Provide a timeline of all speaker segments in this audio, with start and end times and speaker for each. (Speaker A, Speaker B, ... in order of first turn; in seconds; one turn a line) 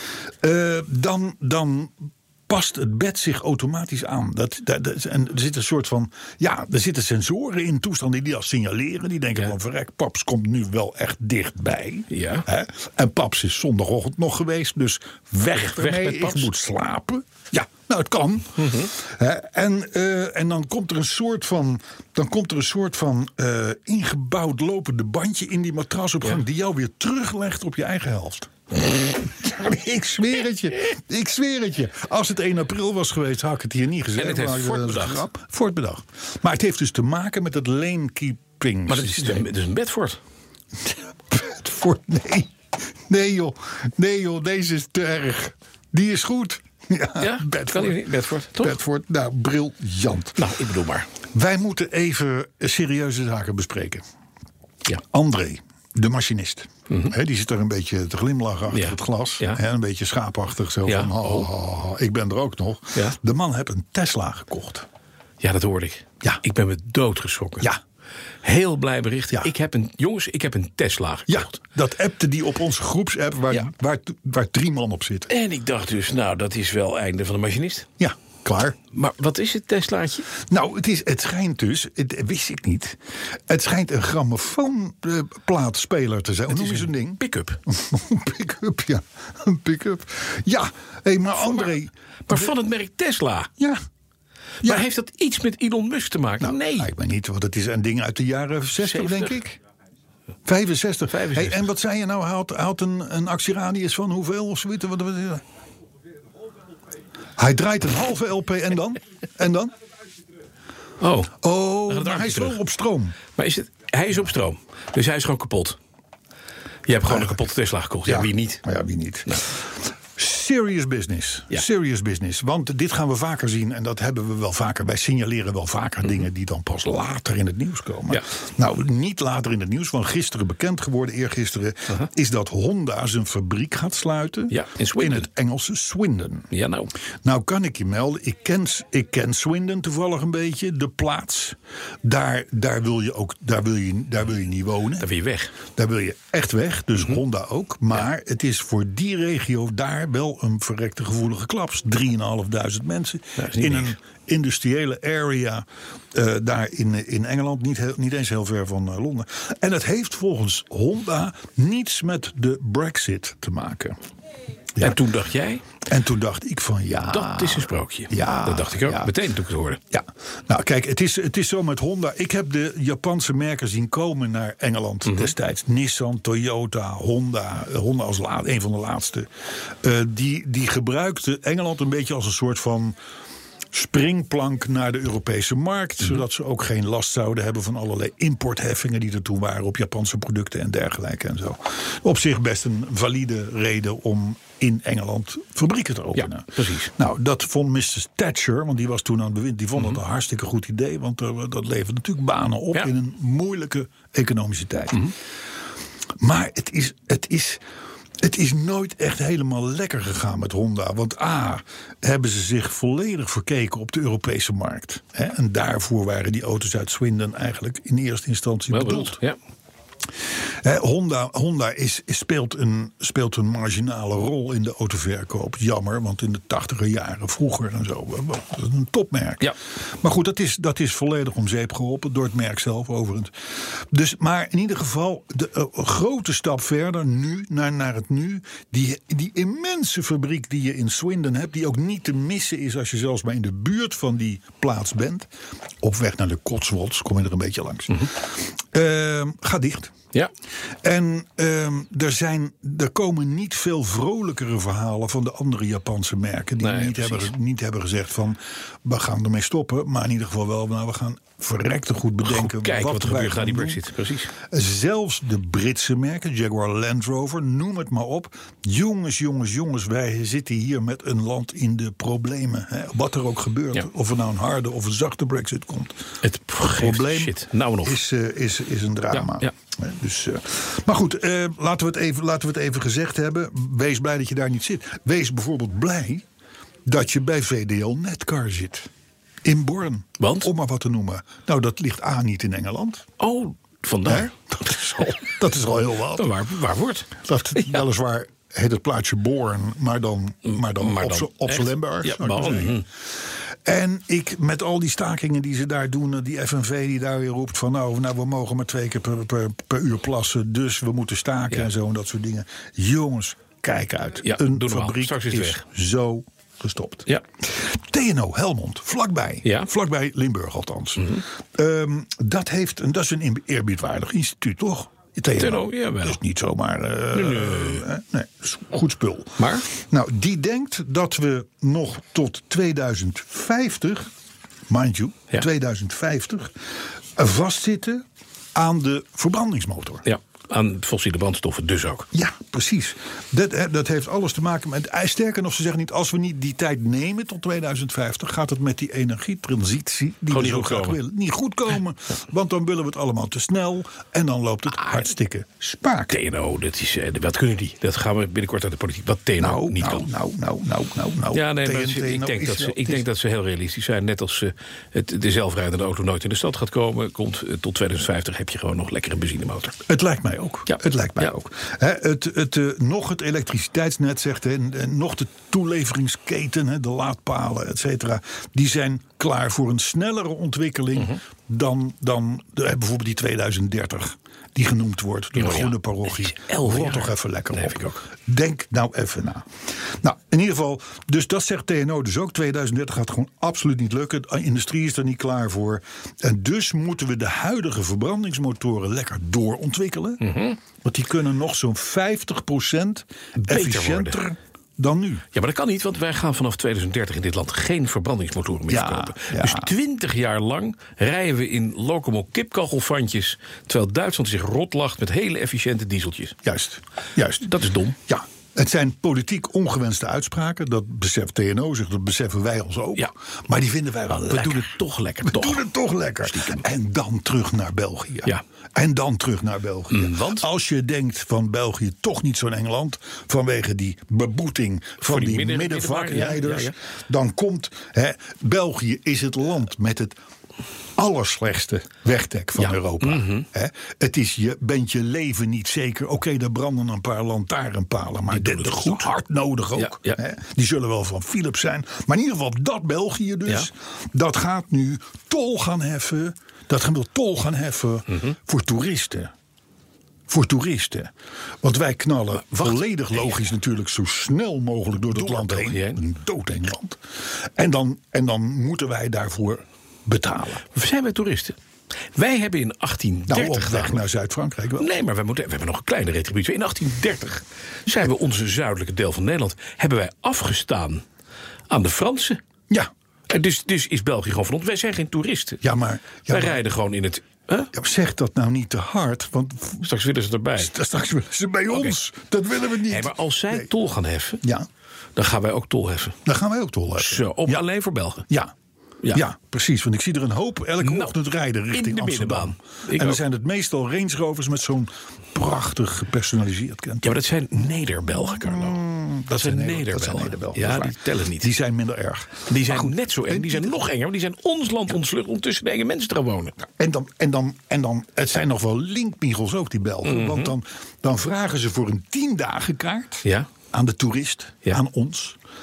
Speaker A: 0.4-39.5
Speaker B: 12.1-12.5
Speaker B: 15.5-16.5
Speaker B: 18.6-18.9
Speaker B: 34.2-35.2
Speaker B: 38.9-40.2
Speaker A: 40.8-42.5
Speaker A: 43.1-48.0
Speaker B: 47.2-48.8
Speaker A: 48.6-50.5
Speaker B: 50.4-51.1
Speaker A: 51.3-54.0
Speaker A: 55.0-64.9
Speaker B: 56.9-57.1
Speaker B: 58.7-59.6
Speaker B: 60.9-61.5
Speaker B: 65.4-67.7
Speaker B: 68.4-71.6
Speaker A: 71.3-75.3
Speaker B: 75.3-77.9
Speaker A: 78.0-78.8
Speaker B: 78.9-80.3
Speaker A: 80.4-92.5
Speaker B: 86.5-87.6
Speaker B: 92.3-93.5
Speaker B: 94.6-96.9
Speaker A: 96.4-99.6
Speaker B: 98.8-99.4
Speaker A: 100.5-105.4
Speaker B: 101.1-101.7
Speaker A: 107.4-109.8
Speaker B: 111.0-112.6
Speaker A: 111.4-113.2
Speaker B: 113.4-115.8
Speaker B: 116.9-118.7
Speaker A: 117.1-117.4
Speaker A: 118.1-136.5
Speaker B: 134.5-135.3
Speaker B: 136.5-136.9
Speaker A: 137.2-145.1
Speaker B: 145.0-145.5
Speaker A: 145.7-164.0
Speaker B: 153.4-154.0
Speaker B: 164.8-165.7
Speaker A: 165.8-169.1
Speaker B: 167.1-169.8
Speaker A: 169.9-179.3
Speaker A: 179.8-183.0
Speaker A: 183.7-205.1
Speaker B: 196.2-196.9
Speaker A: 206.2-207.6
Speaker A: 208.2-219.2
Speaker B: 218.7-219.4
Speaker A: 220.6-245.3
Speaker A: 245.8-249.9
Speaker A: 250.8-276.0
Speaker B: 256.6-257.3
Speaker B: 262.2-264.3
Speaker B: 276.2-278.0
Speaker A: 276.7-286.2
Speaker B: 279.1-279.5
Speaker A: 286.9-288.9
Speaker A: 289.4-293.1
Speaker B: 290.2-290.5
Speaker B: 293.2-294.3
Speaker A: 294.1-296.3
Speaker B: 296.2-297.8
Speaker A: 297.2-302.8
Speaker B: 300.5-302.9
Speaker A: 303.6-334.1
Speaker B: 314.2-315.6
Speaker B: 319.4-319.7
Speaker B: 325.4-326.2
Speaker B: 327.1-327.9
Speaker B: 329.4-329.7
Speaker A: 334.7-336.6
Speaker A: 337.1-338.0
Speaker A: 338.6-340.0
Speaker B: 340.0-342.1
Speaker A: 342.1-356.2
Speaker B: 350.3-351.0
Speaker B: 354.7-355.0
Speaker B: 356.1-360.1
Speaker A: 359.4-363.1
Speaker B: 361.3-369.8
Speaker A: 369.9-400.2
Speaker B: 370.7-371.4
Speaker B: 385.4-388.0
Speaker B: 400.2-400.6
Speaker A: 400.8-405.2
Speaker B: 403.4-404.2
Speaker B: 405.3-416.4
Speaker A: 408.7-409.7
Speaker A: 416.4-417.5
Speaker B: 417.4-418.0
Speaker A: 418.1-440.2
Speaker B: 424.1-425.7
Speaker B: 426.2-426.6
Speaker B: 429.9-430.5
Speaker B: 435.0-436.7
Speaker A: 441.0-459.3
Speaker B: 442.6-443.5
Speaker B: 448.3-449.1
Speaker B: 449.8-450.2
Speaker A: 460.3-470.6
Speaker B: 462.5-463.4
Speaker B: 465.1-466.0
Speaker B: 470.7-471.6
Speaker B: 472.1-474.0
Speaker A: 473.3-474.9
Speaker B: 474.8-481.1
Speaker B: 481.7-482.4
Speaker B: 483.3-485.6
Speaker A: 485.6-486.6
Speaker B: 486.3-487.7
Speaker A: 487.7-489.9
Speaker B: 489.8-490.7
Speaker A: 490.6-493.7
Speaker B: 491.7-492.0
Speaker B: 492.9-494.4
Speaker B: 495.2-496.2
Speaker A: 496.2-497.6
Speaker B: 497.0-498.3
Speaker A: 498.3-498.5
Speaker A: 499.1-507.2
Speaker B: 500.8-501.2
Speaker B: 501.7-503.2
Speaker B: 507.0-511.5
Speaker A: 508.2-513.8
Speaker B: 512.5-516.6
Speaker A: 516.8-525.4
Speaker B: 520.0-520.5
Speaker B: 523.2-523.5